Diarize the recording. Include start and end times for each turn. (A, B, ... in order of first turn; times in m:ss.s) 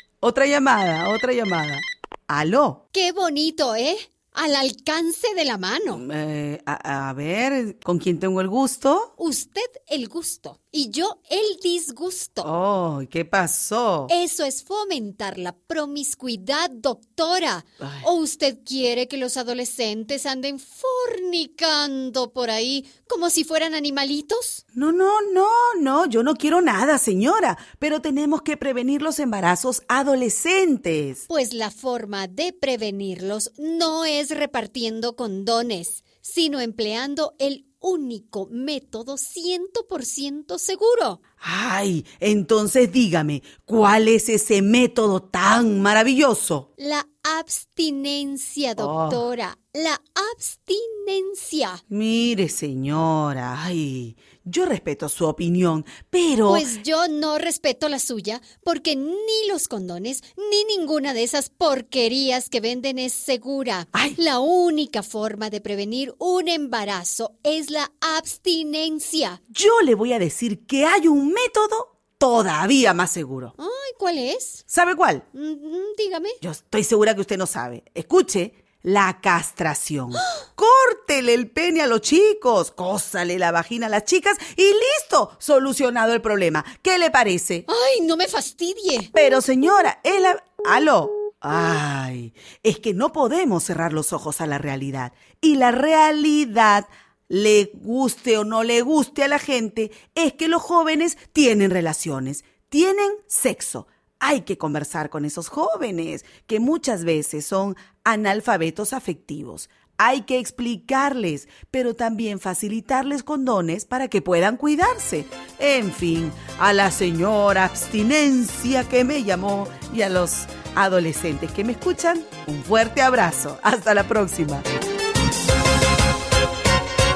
0:00.2-0:02.8 A
0:02.9-0:06.0 B
0:05.9-0:09.1 A
0:09.2-0:12.5 B
0:12.4-0:14.1 A
0:14.1-0:24.6 B
0:17.8-0:18.1 A
0:24.7-0:31.2 A
0:31.3-0:41.2 B
0:41.4-0:46.7 A
0:46.8-0:51.8 B
0:48.8-0:49.3 A
0:51.9-0:56.7 A
0:56.5-1:09.4 B
1:03.9-1:04.2 A
1:09.5-1:13.5 A
1:13.6-1:14.6 B
1:14.7-1:15.2 A
1:15.3-1:16.4 B
1:16.4-1:27.7 A
1:27.7-1:29.1 B
1:29.1-2:04.6 A